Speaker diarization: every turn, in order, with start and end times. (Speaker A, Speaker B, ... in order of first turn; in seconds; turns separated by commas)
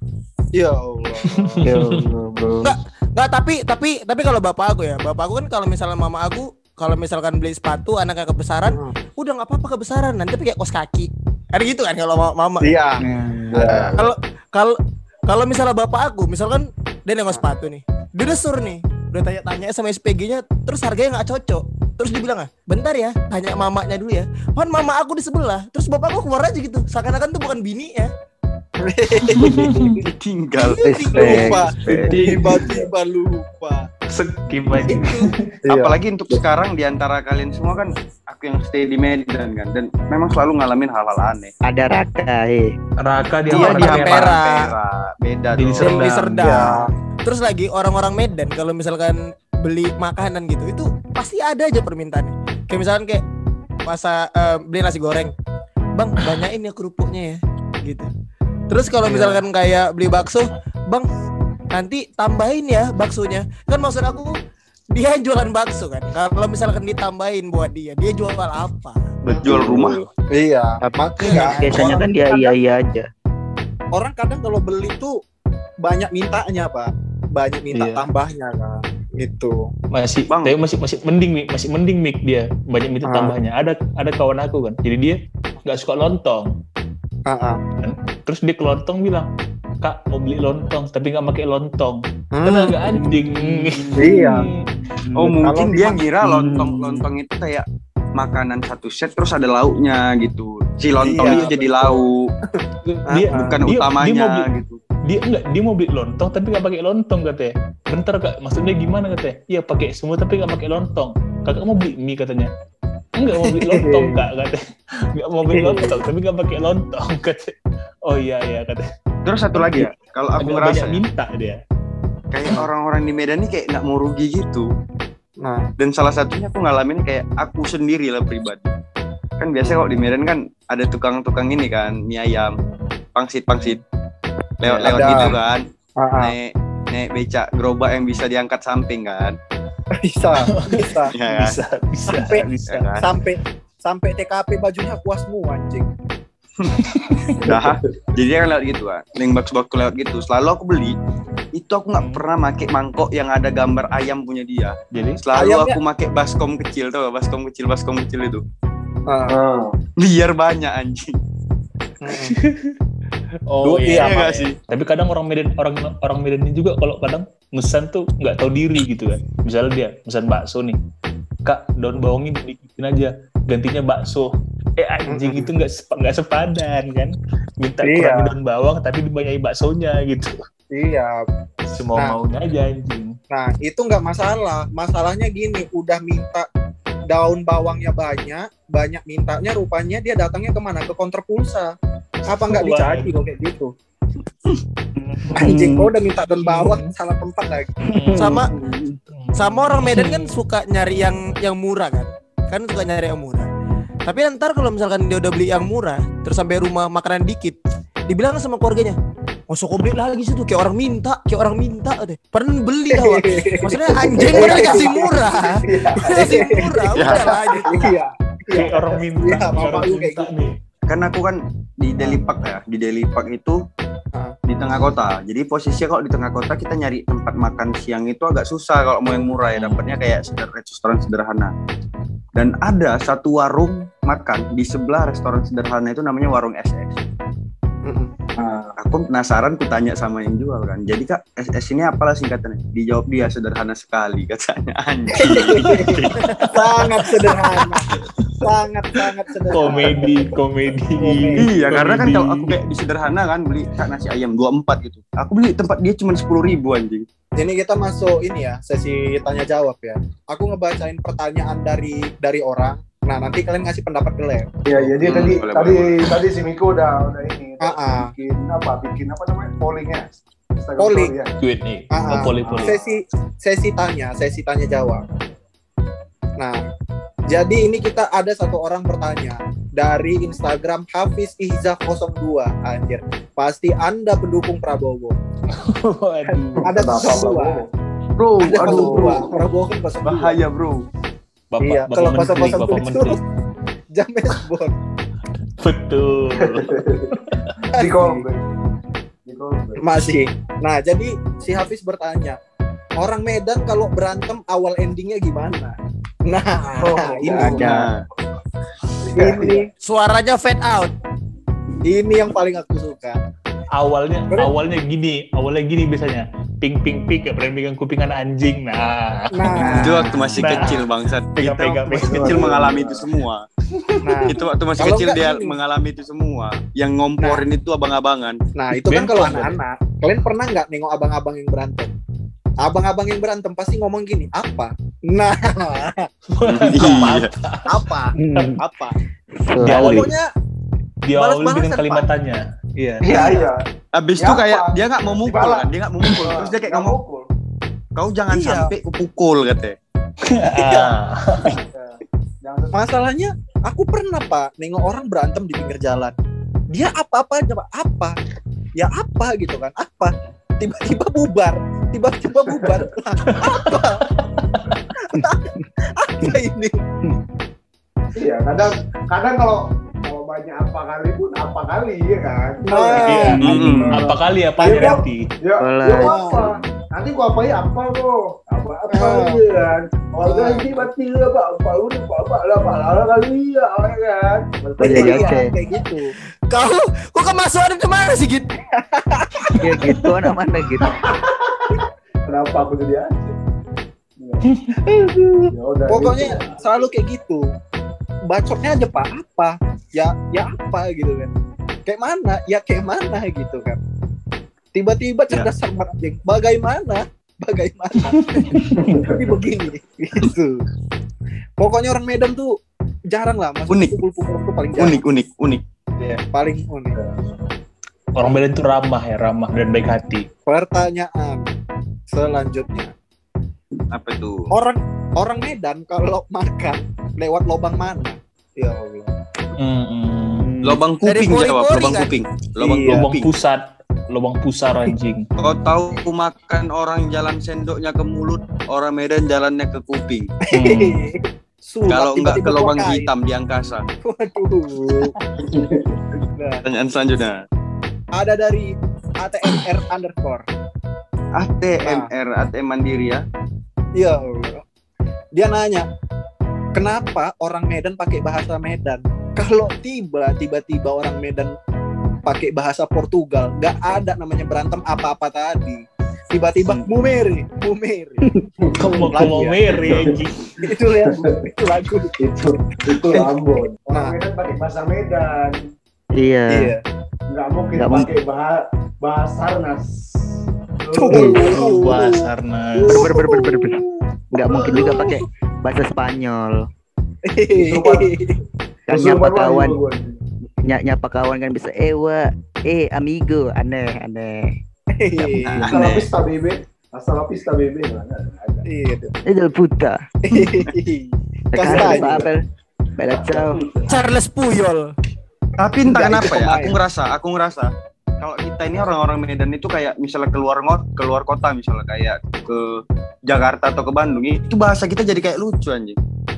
Speaker A: 0.5-1.6, Speaker B: 1.3-2.1, Speaker C: 1.7-2.7, Speaker D: 2.6-12.7, Speaker A: 12.6-13.0, Speaker C: 13.0-13.7, Speaker E: 13.5-14.0, Speaker A: 13.5-14.1, Speaker D: 14.0-14.8, Speaker D: 15.3-28.1, Speaker A: 28.8-29.7, Speaker B: 29.3-30.0, Speaker F: 29.6-30.8, Speaker A: 30.8-33.9, Speaker C: 30.8-32.6, Speaker E: 31.8-32.8, Speaker B: 34.1-35.5, Speaker A: 34.8-36.0, Speaker F: 35.7-41.5, Speaker C: 41.6-42.7, Speaker B: 43.0-44.4, Speaker A: 43.5-44.4, Speaker F: 43.5-46.1, Speaker D: 43.8-44.7, Speaker B: 45.5-46.8, Speaker D: 45.8-53.2, Speaker A: 46.4-46.9, Speaker D: 53.9-55.3, Speaker D: 55.9-58.1, Speaker D: 58.7-61.1, Speaker D: 61.7-64.3, Speaker D: 64.9-69.1, Speaker B: 69.3-70.0, Speaker F: 69.4-70.0, Speaker C: 69.5-69.8, Speaker A: 70.3-72.5, Speaker C: 70.8-73.1, Speaker D: 71.2-72.0, Speaker A: 73.9-75.2, Speaker A: 75.8-79.7, Speaker B: 77.7-78.0, Speaker B: 79.9-86.5, Speaker F: 80.3-80.6, Speaker A: 83.0-83.3, Speaker A: 87.2-87.6, Speaker B: 87.8-89.3, Speaker B: 89.8-94.6, Speaker A: 92.3-93.0, Speaker C: 92.9-95.5, Speaker A: 94.0-94.5, Speaker F: 95.2-97.6, Speaker A: 95.4-96.0, Speaker C: 96.2-97.1, Speaker F: 98.2-102.3, Speaker A: 100.9-101.8, Speaker B: 101.2-102.0, Speaker A: 102.5-103.6, Speaker B: 102.8-104.5, Speaker F: 103.3-104.8, Speaker B: 105.1-112.5, Speaker B: 113.2-114.6, Speaker A: 113.3-114.2, Speaker B: 115.1-118.8, Speaker A: 115.5-116.0, Speaker F: 119.2-121.0, Speaker B: 119.5-121.6, Speaker F: 122.3-124.7, Speaker A: 125.4-125.7, Speaker F: 125.8-128.7, Speaker F: 129.4-132.5, Speaker F: 133.2-133.8, Speaker F: 134.6-135.6, Speaker B: 134.6-135.3, Speaker A: 134.8-135.3, Speaker A: 136.0-136.3, Speaker F: 136.2-139.3, Speaker A: 140.0-141.1, Speaker B: 140.4-142.9, Speaker F: 141.2-141.6, Speaker A: 142.1-145.9, Speaker F: 142.7-143.1, Speaker B: 146.8-147.4, Speaker E: 147.4-147.8, Speaker F: 147.4-151.0, Speaker F: 151.5-158.4, Speaker B: 152.0-152.2, Speaker B: 154.9-155.2, Speaker A: 155.3-155.8, Speaker A: 159.1-159.4, Speaker E: 159.3-159.7, Speaker F: 160.0-161.2, Speaker A: 162.0-162.4, Speaker B: 162.1-162.8, Speaker B: 163.5-170.8, Speaker A: 163.7-164.2, Speaker F: 163.9-164.5, Speaker B: 171.4-180.3, Speaker A: 175.1-175.5, Speaker A: 177.8-178.4, Speaker A: 180.7-181.2, Speaker B: 181.7-183.1, Speaker A: 183.3-186.5, Speaker A: 187.1-191.7, Speaker B: 192.2-193.1, Speaker A: 192.2-193.7, Speaker B: 195.0-195.6, Speaker A: 195.4-197.7, Speaker B: 196.3-196.9, Speaker C: 197.9-199.0, Speaker B: 197.9-198.4, Speaker D: 198.1-198.5, Speaker B: 199.1-200.4, Speaker D: 199.3-203.5, Speaker D: 204.0-207.6, Speaker D: 208.1-208.9, Speaker D: 209.5-217.9, Speaker A: 212.9-215.1, Speaker E: 214.1-216.4, Speaker A: 216.1-220.3, Speaker F: 217.0-217.3, Speaker B: 218.5-220.6, Speaker F: 220.9-223.6, Speaker F: 224.5-231.5, Speaker A: 229.1-229.3, Speaker B: 229.5-229.8, Speaker F: 232.3-237.0, Speaker A: 237.8-238.1, Speaker E: 238.3-238.7, Speaker F: 238.8-246.3, Speaker A: 245.1-246.0, Speaker B: 245.7-246.7, Speaker A: 246.5-247.9, Speaker A: 248.4-250.1, Speaker B: 249.5-252.6, Speaker E: 249.6-250.2, Speaker A: 251.0-251.9, Speaker F: 251.4-257.0, Speaker A: 257.4-264.5, Speaker E: 264.6-271.3, Speaker B: 264.8-265.4, Speaker F: 265.0-266.2, Speaker A: 267.6-268.1, Speaker A: 270.8-271.1, Speaker B: 271.4-272.7, Speaker A: 271.9-275.0, Speaker E: 272.4-273.0, Speaker A: 277.3-285.1, Speaker B: 285.5-286.6, Speaker A: 286.2-287.6, Speaker F: 286.4-286.6, Speaker E: 286.6-287.7, Speaker F: 288.2-289.3, Speaker A: 288.4-290.4, Speaker E: 288.4-289.4, Speaker F: 290.0-290.8, Speaker B: 291.5-293.2, Speaker A: 291.6-293.2, Speaker A: 293.9-294.8, Speaker B: 295.6-297.6, Speaker E: 296.3-297.2, Speaker E: 297.7-298.5, Speaker A: 297.8-298.2, Speaker E: 299.2-299.8, Speaker A: 299.8-302.4, Speaker A: 303.0-307.8, Speaker E: 306.8-307.8, Speaker C: 307.3-307.9, Speaker F: 307.6-308.0, Speaker E: 309.0-309.7, Speaker A: 309.1-309.7, Speaker D: 309.8-310.9, Speaker A: 311.8-313.2, Speaker B: 313.8-320.8, Speaker A: 319.3-320.8, Speaker C: 319.6-320.4, Speaker F: 319.8-323.4, Speaker B: 321.4-322.5, Speaker E: 321.9-323.1, Speaker E: 323.8-324.3, Speaker A: 324.0-325.6, Speaker F: 324.3-328.4, Speaker A: 328.5-331.9, Speaker B: 328.7-329.6, Speaker A: 332.6-336.1, Speaker B: 336.3-337.9, Speaker F: 336.5-337.3, Speaker A: 336.8-339.0, Speaker C: 338.1-338.6, Speaker C: 339.5-340.1, Speaker B: 339.6-340.1, Speaker A: 339.6-340.2, Speaker B: 341.0-343.2, Speaker A: 341.1-342.1, Speaker E: 343.0-343.6, Speaker A: 343.1-343.5, Speaker F: 343.9-347.0, Speaker E: 344.2-347.3, Speaker F: 347.9-349.8, Speaker A: 348.3-348.7, Speaker B: 350.2-351.5, Speaker A: 350.5-351.0, Speaker E: 351.6-352.8, Speaker A: 352.7-356.1, Speaker A: 356.7-358.1, Speaker A: 358.8-364.0, Speaker E: 362.4-362.8, Speaker B: 363.2-364.9, Speaker A: 365.0-366.8, Speaker E: 368.1-373.9, Speaker A: 372.7-373.6, Speaker B: 373.0-375.2, Speaker C: 373.3-374.1, Speaker F: 373.4-373.9, Speaker E: 374.6-385.4, Speaker A: 374.6-374.9, Speaker C: 375.6-376.7, Speaker A: 376.0-376.4, Speaker A: 378.9-379.4, Speaker A: 380.2-380.9, Speaker C: 384.8-385.5, Speaker A: 384.8-386.1, Speaker D: 386.5-388.5, Speaker A: 388.8-389.6, Speaker C: 389.6-391.0, Speaker E: 390.8-393.3, Speaker E: 394.2-394.4, Speaker A: 394.9-397.4, Speaker E: 395.5-396.9, Speaker A: 398.3-401.3, Speaker A: 401.9-403.8, Speaker A: 404.7-410.6, Speaker B: 408.0-409.1, Speaker E: 408.7-409.3, Speaker A: 411.6-412.5, Speaker A: 413.1-415.0, Speaker F: 413.7-414.0, Speaker F: 414.8-415.6, Speaker A: 416.0-417.0, Speaker B: 418.1-420.2, Speaker A: 420.5-421.4, Speaker A: 422.1-422.9, Speaker F: 423.9-424.5, Speaker A: 424.5-429.1, Speaker B: 429.6-430.6, Speaker C: 430.4-430.8, Speaker F: 430.6-433.3, Speaker D: 431.0-432.1, Speaker A: 432.6-433.0, Speaker B: 432.9-435.3, Speaker F: 435.4-440.3, Speaker A: 440.5-443.1, Speaker B: 440.5-441.0, Speaker F: 441.9-443.8, Speaker A: 444.0-445.1, Speaker E: 445.5-446.0, Speaker A: 446.4-446.6, Speaker F: 446.6-447.4, Speaker A: 448.1-448.7, Speaker A: 449.2-450.4, Speaker F: 451.4-453.2, Speaker A: 451.8-452.1, Speaker A: 454.0-454.6, Speaker A: 455.3-455.9, Speaker A: 456.7-461.5, Speaker A: 462.2-468.2, Speaker E: 468.6-469.3, Speaker B: 468.8-470.5, Speaker A: 469.1-470.0, Speaker E: 469.9-471.3, Speaker A: 470.6-472.2, Speaker E: 472.2-475.6, Speaker C: 476.2-476.7, Speaker A: 476.5-476.8, Speaker E: 477.3-480.3, Speaker C: 477.8-478.1, Speaker E: 480.8-481.8, Speaker A: 480.9-482.3, Speaker C: 481.1-481.6, Speaker B: 481.3-483.0, Speaker A: 482.9-483.8, Speaker C: 482.9-483.8, Speaker C: 484.3-486.7, Speaker A: 484.4-485.2, Speaker A: 487.3-488.4, Speaker E: 487.5-488.1, Speaker C: 488.9-489.8, Speaker E: 488.9-490.2, Speaker C: 490.6-494.5, Speaker A: 494.9-495.7, Speaker F: 495.4-496.1, Speaker E: 495.6-498.6, Speaker A: 498.7-499.1, Speaker C: 499.2-500.0, Speaker A: 500.3-502.3, Speaker C: 501.6-502.4, Speaker E: 501.7-502.1, Speaker C: 503.0-503.6, Speaker D: 503.9-504.9, Speaker F: 505.6-516.0, Speaker A: 505.9-506.8